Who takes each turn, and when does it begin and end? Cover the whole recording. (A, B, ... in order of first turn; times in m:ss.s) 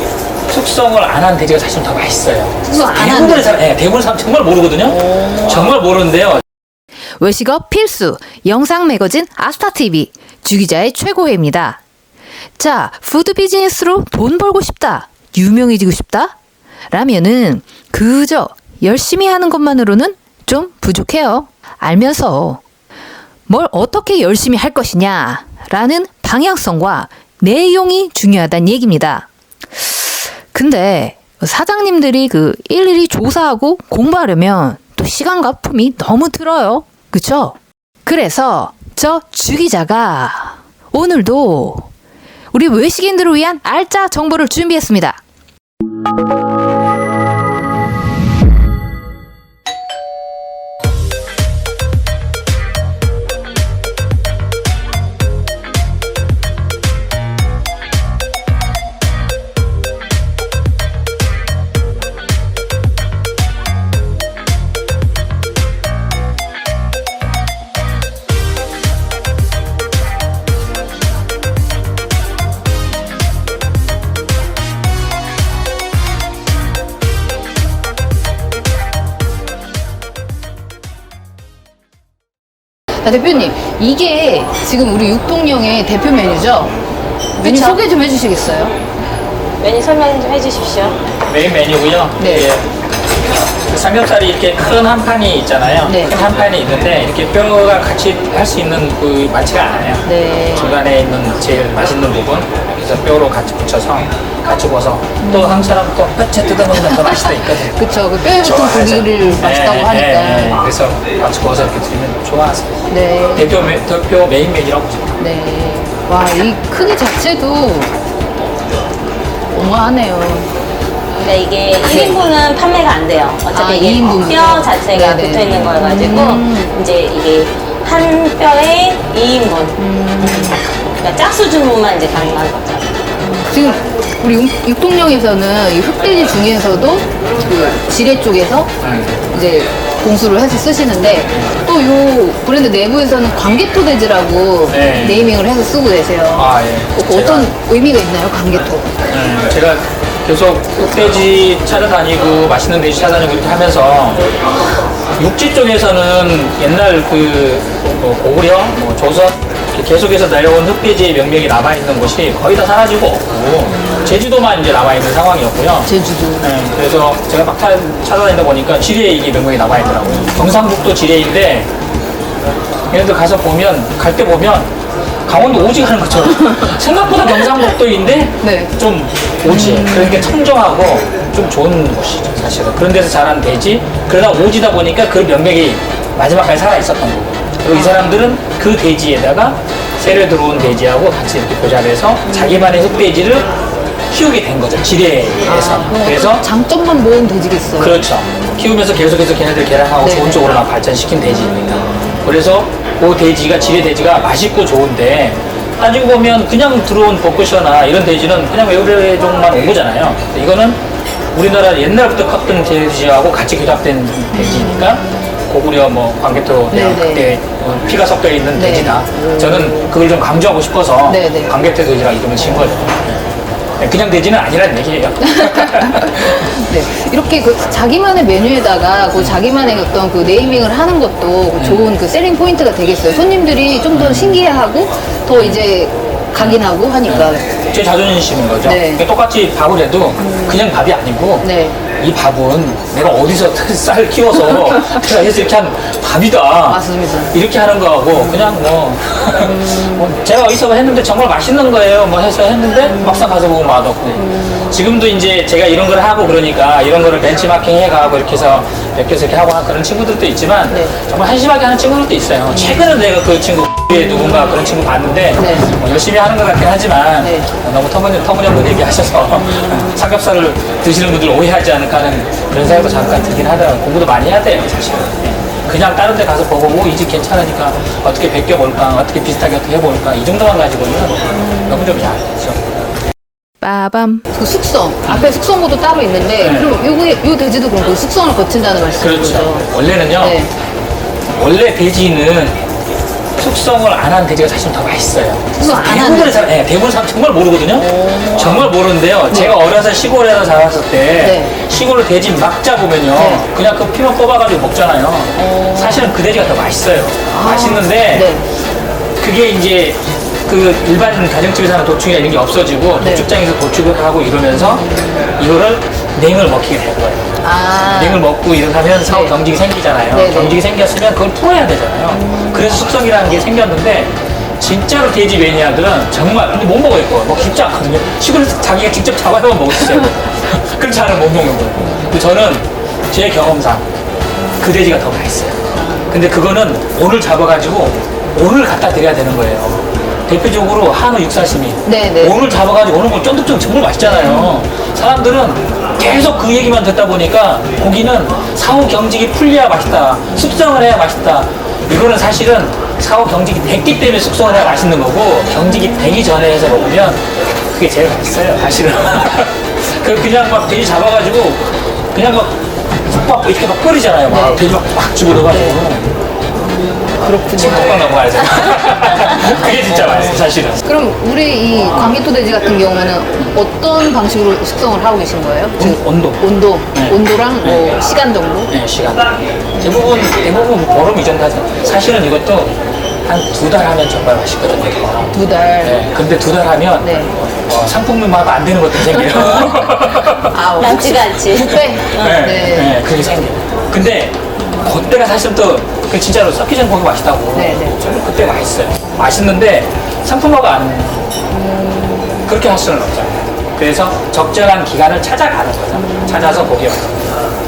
0:00.5-0:06.4 A
0:02.7-0:03.6 B
0:04.9-0:05.6 B
0:07.2-0:11.8 B
0:12.6-0:16.4 B
0:16.9-0:22.6 B
0:23.5-0:41.9 B
0:42.5-0:45.2 B
1:23.0-1:26.8 B
1:27.4-1:27.8 C
1:27.4-1:28.8 B
1:29.6-1:31.0 C
1:31.3-1:32.7 A
1:32.2-1:32.5 B
1:33.7-1:52.8 A
1:35.8-1:36.1 B
1:40.0-1:40.7 B
1:45.2-1:45.8 B
1:46.9-1:50.7 B
1:52.9-1:53.5 B
1:53.3-1:55.1 A
1:55.2-1:57.9 B
1:59.5-2:00.5 B
2:01.2-2:13.0 C
2:01.9-2:02.2 B
2:03.5-2:06.7 B
2:09.8-2:10.6 B
2:13.3-2:18.7 B
2:18.8-2:19.3 A
2:19.3-2:28.9 B
2:24.7-2:25.3 A
2:26.3-2:27.5 A
2:29.1-2:34.3 A
2:35.1-2:51.7 A
2:43.7-2:44.1 B
2:45.9-2:46.4 B
2:50.0-2:50.5 B
2:52.9-2:54.7 A
2:55.2-3:13.5 A
2:58.4-2:58.7 B
2:59.5-3:00.3 B
3:07.7-3:08.3 B
3:12.2-3:12.8 B
3:14.1-3:16.5 A
3:15.4-3:18.0 B
3:17.8-3:30.8 A
3:20.0-3:20.5 B
3:31.3-3:43.3 A
3:34.3-3:35.1 B
3:36.7-3:37.3 B
3:38.5-3:39.9 B
3:41.1-3:41.5 B
3:42.4-3:42.7 B
3:43.8-3:46.5 A
3:45.2-3:57.4 B
3:51.6-3:51.9 A
3:53.9-3:54.4 A
3:56.4-4:42.6 A
3:58.6-3:59.0 B
4:00.2-4:00.6 B
4:01.4-4:01.8 B
4:06.7-4:07.4 B
4:08.2-4:08.4 B
4:09.4-4:10.0 B
4:12.9-4:13.2 B
4:20.7-4:20.9 B
4:25.4-4:25.7 B
4:27.2-4:27.5 B
4:41.4-4:42.0 B
4:43.6-4:49.7 B
4:45.0-4:45.3 A
4:46.4-4:46.7 A
4:49.0-4:50.4 A
4:50.2-4:50.5 B
4:51.2-4:52.6 A
4:53.4-5:08.3 A
4:55.6-4:56.4 B
4:57.8-4:58.7 B
4:59.3-4:59.5 B
5:01.2-5:01.5 B
5:03.2-5:03.4 B
5:05.3-5:06.1 B
5:07.3-5:08.4 B
5:09.2-5:33.9 A
5:13.0-5:13.3 B
5:14.5-5:15.3 B
5:17.4-5:18.2 B
5:19.1-5:19.4 B
5:20.1-5:20.6 B
5:22.1-5:22.8 B
5:34.6-6:06.1 A
5:35.8-5:36.2 B
5:41.9-5:42.4 B
5:44.1-5:44.5 B
6:04.3-6:04.6 B
6:05.5-6:05.8 B
6:06.6-6:08.0 B
6:07.5-6:10.8 A
6:09.5-6:18.7 B
6:11.8-6:12.1 A
6:15.8-6:18.0 A
6:18.7-6:30.5 A
6:19.8-6:20.3 B
6:25.3-6:26.0 B
6:27.0-6:27.4 B
6:30.5-6:33.0 B
6:30.7-6:32.5 C
6:32.0-6:41.4 A
6:37.5-6:38.0 B
6:41.5-6:42.5 B
6:42.4-6:47.4 A
6:45.9-6:46.7 B